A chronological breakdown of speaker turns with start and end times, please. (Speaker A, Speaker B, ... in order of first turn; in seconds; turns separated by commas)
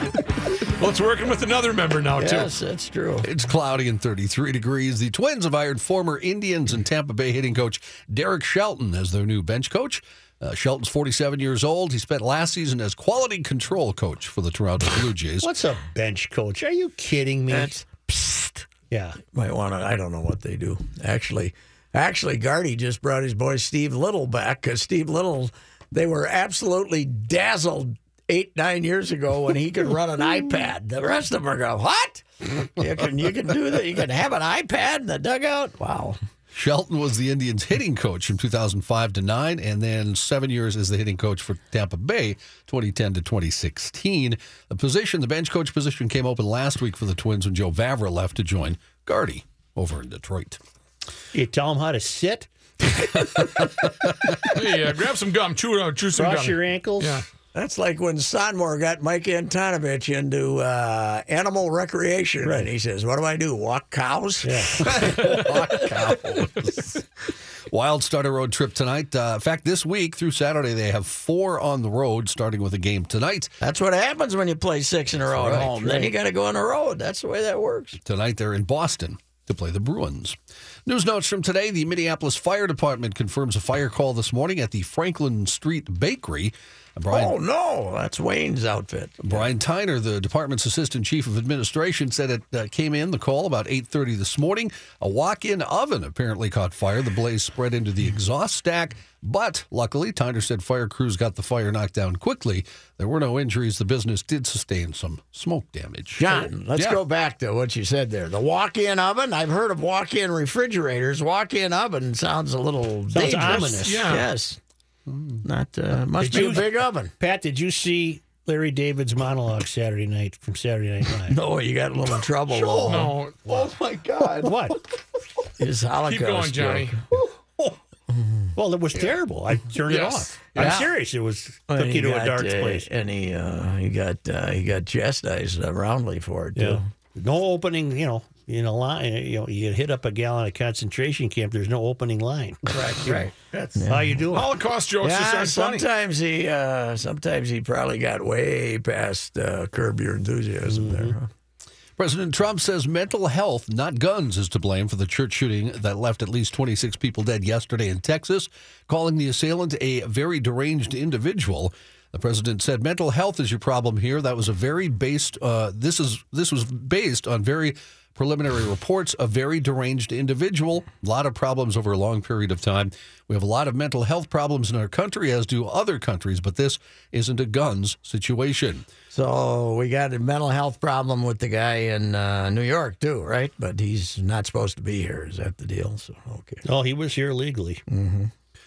Speaker A: 0.8-2.5, Speaker B: 2.2-3.3, Speaker C: 3.2-15.5, Speaker D: 15.4-17.8, Speaker B: 17.5-18.7, Speaker D: 18.9-19.2, Speaker B: 19.3-36.2, Speaker C: 36.5-50.6, Speaker D: 51.3-52.5, Speaker C: 53.3-53.9, Speaker A: 54.5-57.2, Speaker D: 56.1-57.2, Speaker B: 57.5-65.4, Speaker D: 64.4-65.3, Speaker C: 64.8-67.0, Speaker C: 67.7-73.5, Speaker B: 73.6-78.0, Speaker C: 75.3-76.1, Speaker C: 78.0-87.3, Speaker B: 87.1-89.5, Speaker C: 89.2-107.0, Speaker B: 106.2-114.6, Speaker D: 113.1-114.2, Speaker A: 113.7-114.3, Speaker B: 115.4-117.1, Speaker D: 116.2-121.4, Speaker B: 121.3-123.1, Speaker E: 122.5-124.5, Speaker A: 122.8-123.5, Speaker D: 124.3-124.8, Speaker B: 125.6-127.0, Speaker A: 126.0-127.0, Speaker D: 128.6-132.9, Speaker A: 129.8-130.8, Speaker B: 130.6-130.9, Speaker B: 131.7-136.8, Speaker D: 136.6-143.3, Speaker B: 142.7-144.3, Speaker D: 143.8-144.5, Speaker A: 144.3-145.9, Speaker B: 145.0-151.3, Speaker D: 150.7-151.1, Speaker C: 152.0-178.8, Speaker B: 179.1-186.6, Speaker D: 186.6-187.8, Speaker B: 187.9-188.3